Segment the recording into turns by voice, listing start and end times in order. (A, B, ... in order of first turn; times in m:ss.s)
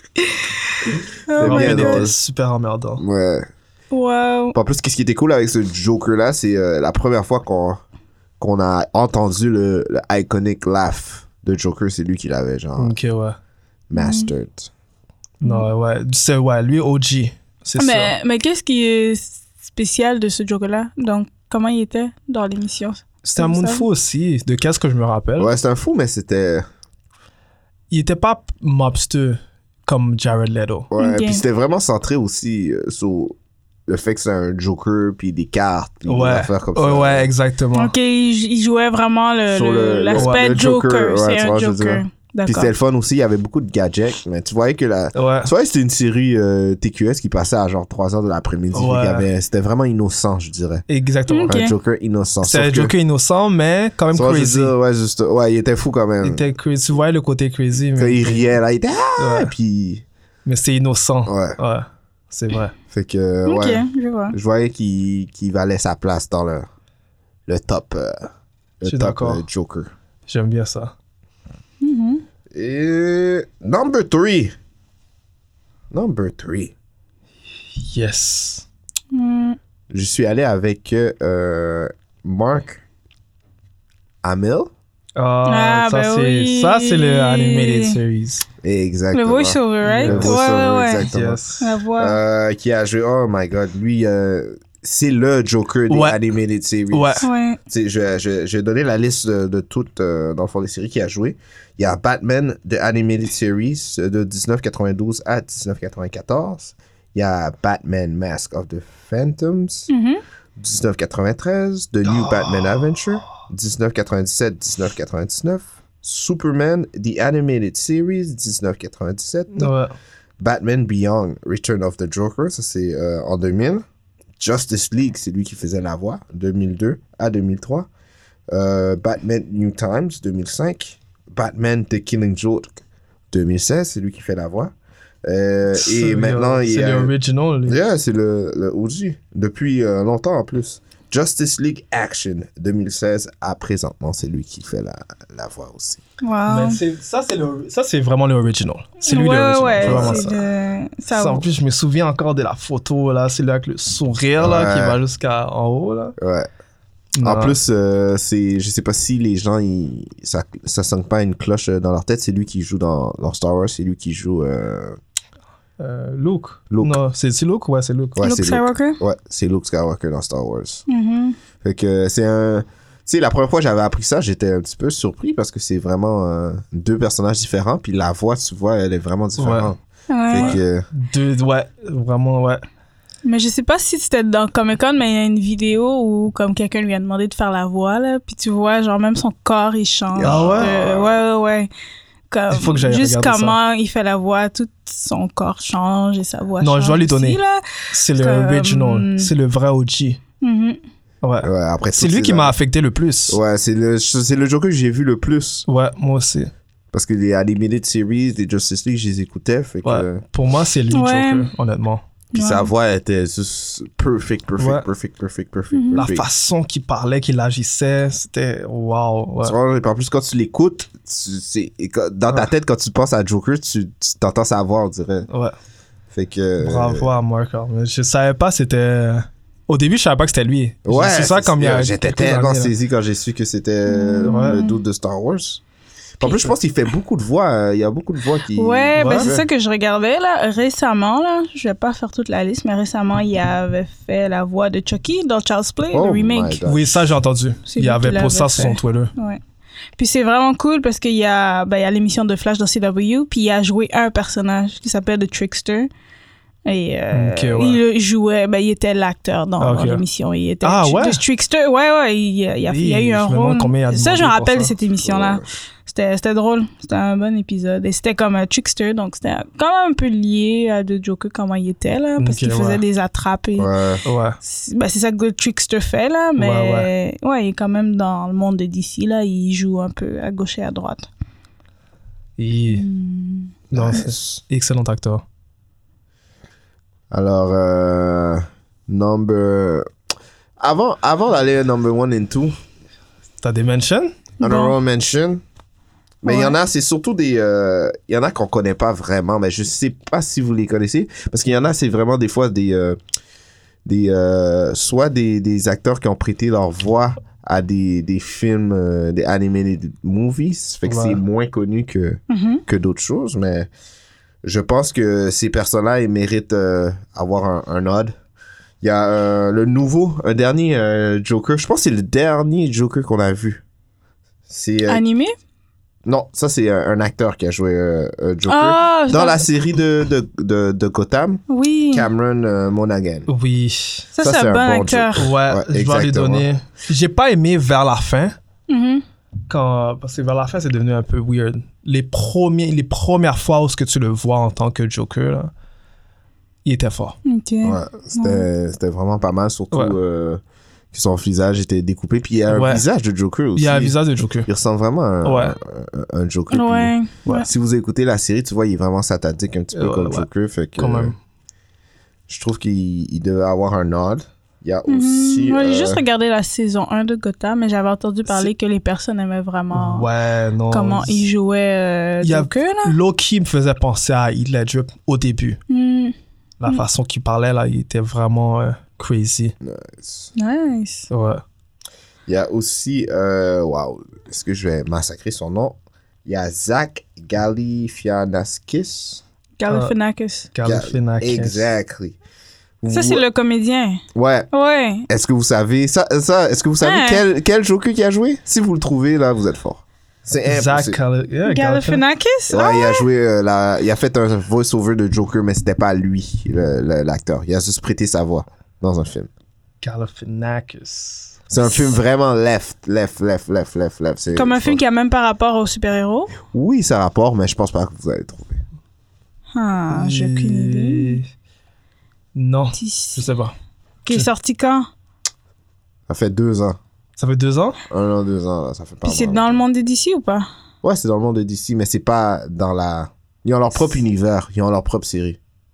0:00.2-0:02.1 A
0:01.4-0:02.2 B
0:01.4-0:03.0 C
0:03.0-0:03.5 B
0:03.9-0:04.6 A
0:04.5-0:07.8 B
0:08.4-0:12.9 B
0:12.8-0:13.4 C
0:13.9-0:14.7 B
0:14.0-0:14.3 A
0:15.4-0:18.1 C
0:15.4-0:15.7 A
0:17.8-0:23.9 A
0:23.2-0:25.5 C
0:25.4-0:26.7 B
0:27.9-0:30.9 C
0:30.9-0:33.4 B
0:31.0-0:31.4 A
0:33.9-0:37.3 B
0:36.1-0:37.9 C
0:37.7-0:42.7 A
0:39.5-0:50.8 B
0:40.2-0:40.5 C
0:45.1-0:45.5 C
0:48.7-0:49.3 C
0:50.9-0:51.6 C
0:51.3-0:51.7 A
0:51.5-0:52.9 B
0:52.4-0:54.7 C
0:54.1-0:56.4 B
0:56.2-0:58.5 C
0:58.0-1:00.0 B
0:59.2-0:59.5 C
1:00.5-1:02.7 C
1:01.3-1:01.6 B
1:02.9-1:06.7 B
1:03.5-1:04.4 A
1:07.5-1:09.9 B
1:08.8-1:09.4 C
1:10.3-1:10.9 C
1:11.8-1:12.2 A
1:12.5-1:14.6 B
1:15.9-1:16.7 B
1:17.8-1:18.6 C
1:19.1-1:19.6 A
1:19.9-1:22.8 B
1:24.2-1:24.7 B
1:25.2-1:28.4 C
1:25.5-1:28.0 A
1:28.6-1:31.4 B
1:29.1-1:31.1 A
1:29.8-1:30.4 C
1:31.0-1:31.6 C
1:31.6-1:32.2 A
1:32.0-1:49.9 B
1:35.9-1:36.2 C
1:36.9-1:37.3 C
1:37.2-1:37.6 A
1:49.9-1:50.2 A
1:50.6-1:59.7 B
1:52.0-1:53.2 C
1:59.6-1:59.9 C
2:00.4-2:03.8 B
2:04.4-2:07.9 B
2:08.5-2:14.7 B
2:15.2-2:17.1 B
2:15.8-2:17.8 C
2:17.7-2:26.0 B
2:26.2-2:26.8 A
2:26.5-2:30.4 C
2:29.0-2:31.4 A
2:29.8-2:30.3 B
2:31.1-2:36.2 C
2:34.4-2:35.0 B
2:36.2-2:36.5 B
2:37.2-2:37.6 C
2:37.2-2:45.0 B
2:45.8-2:48.2 C
2:46.7-2:47.0 B
2:48.2-2:50.8 B
2:48.2-2:49.0 A
2:50.9-2:51.4 A
2:51.6-2:59.8 B
2:59.4-2:59.7 C
3:00.1-3:00.6 A
3:00.3-3:00.9 B
3:00.3-3:02.6 C
3:03.2-3:11.7 A
3:10.1-3:11.2 B
3:10.2-3:10.8 C
3:12.3-3:19.3 A
3:12.5-3:13.6 C
3:16.6-3:17.4 C
3:17.9-3:20.2 C
3:20.4-3:20.8 A
3:21.2-3:23.4 C
3:21.4-3:22.5 B
3:23.3-3:25.7 B
3:25.7-3:26.5 C
3:26.9-3:30.2 B
3:29.8-3:32.0 C
3:30.9-3:31.5 A
3:32.3-3:32.7 A
3:32.3-3:36.3 B
3:34.6-3:34.9 C
3:35.7-3:36.0 A
3:35.9-3:39.6 C
3:39.4-3:45.3 B
3:45.3-3:45.6 C
3:46.1-3:47.1 B
3:46.6-3:52.7 C
3:50.9-3:55.6 B
3:53.9-3:54.8 A
3:54.2-3:54.6 C
3:56.2-3:59.4 B
3:56.2-3:56.5 A
3:58.6-4:06.6 A
3:59.0-3:59.3 C
4:05.9-4:07.0 B
4:06.7-4:09.1 C
4:07.7-4:09.4 A
4:10.0-4:15.9 A
4:16.6-4:33.7 A
4:17.1-4:17.8 C
4:19.6-4:20.0 C
4:20.6-4:21.2 C
4:22.7-4:24.7 C
4:25.0-4:25.5 B
4:32.2-4:32.8 C
4:33.6-4:34.0 B
4:34.0-4:34.4 C
4:34.4-4:41.1 A
4:36.4-4:36.9 C
4:42.4-4:42.9 C
4:42.7-4:43.5 A
4:43.7-4:44.4 B
4:43.7-4:45.2 C
4:47.1-4:49.9 B
4:50.6-4:52.6 B
4:53.4-4:54.2 C
4:54.4-4:54.8 A
4:54.4-4:55.4 B
4:56.2-5:03.0 B
4:56.2-4:56.6 A
5:03.8-5:13.7 B
5:10.9-5:11.2 C
5:12.3-5:12.6 A
5:14.4-5:18.1 B
5:18.8-5:23.6 B
5:24.5-5:25.0 B
5:24.9-5:25.3 A
5:26.0-5:33.3 B
5:28.5-5:29.4 A
5:31.5-5:32.1 A
5:33.3-5:34.1 C
5:34.2-5:35.3 A
5:34.2-5:36.5 B
5:35.2-5:38.4 C
5:38.7-5:39.0 A
5:39.5-5:45.5 C
5:46.6-5:47.2 C
5:47.2-5:48.4 A
5:47.6-5:50.4 B
5:50.9-6:01.1 B
5:52.5-5:52.8 C
5:53.6-5:54.5 C
5:55.2-5:55.6 C
5:56.5-5:57.5 A
5:59.7-6:00.3 C
6:00.8-6:01.2 C
6:02.3-6:06.0 B
6:04.9-6:10.1 A
6:09.7-6:11.3 C
6:10.7-6:12.9 A
6:12.2-6:15.6 C
6:15.7-6:16.2 A
6:16.6-6:19.5 C
6:19.6-6:20.3 B
6:20.4-6:21.1 A
6:21.1-6:21.4 C
6:22.3-6:29.2 B
6:29.6-6:30.5 A
6:29.7-6:29.9 C
6:30.5-6:31.6 C
6:30.6-6:32.2 B
6:32.8-6:33.2 B
6:32.9-6:35.1 A
6:34.1-6:34.5 B
6:35.1-6:41.0 B
6:36.8-6:37.2 A
6:40.5-6:42.0 C
6:41.5-6:43.0 A
6:42.5-6:49.3 B
6:49.8-6:51.4 C
6:51.5-6:54.8 B
6:54.4-6:56.3 A
6:56.5-6:58.6 B
6:59.6-7:01.2 A
6:59.9-7:01.2 C
7:02.4-7:03.5 C
7:02.7-7:03.2 A
7:04.1-7:04.9 A
7:06.1-7:06.8 B
7:07.2-7:07.8 C
7:07.9-7:09.6 B
7:09.0-7:10.5 A
7:10.8-7:15.4 B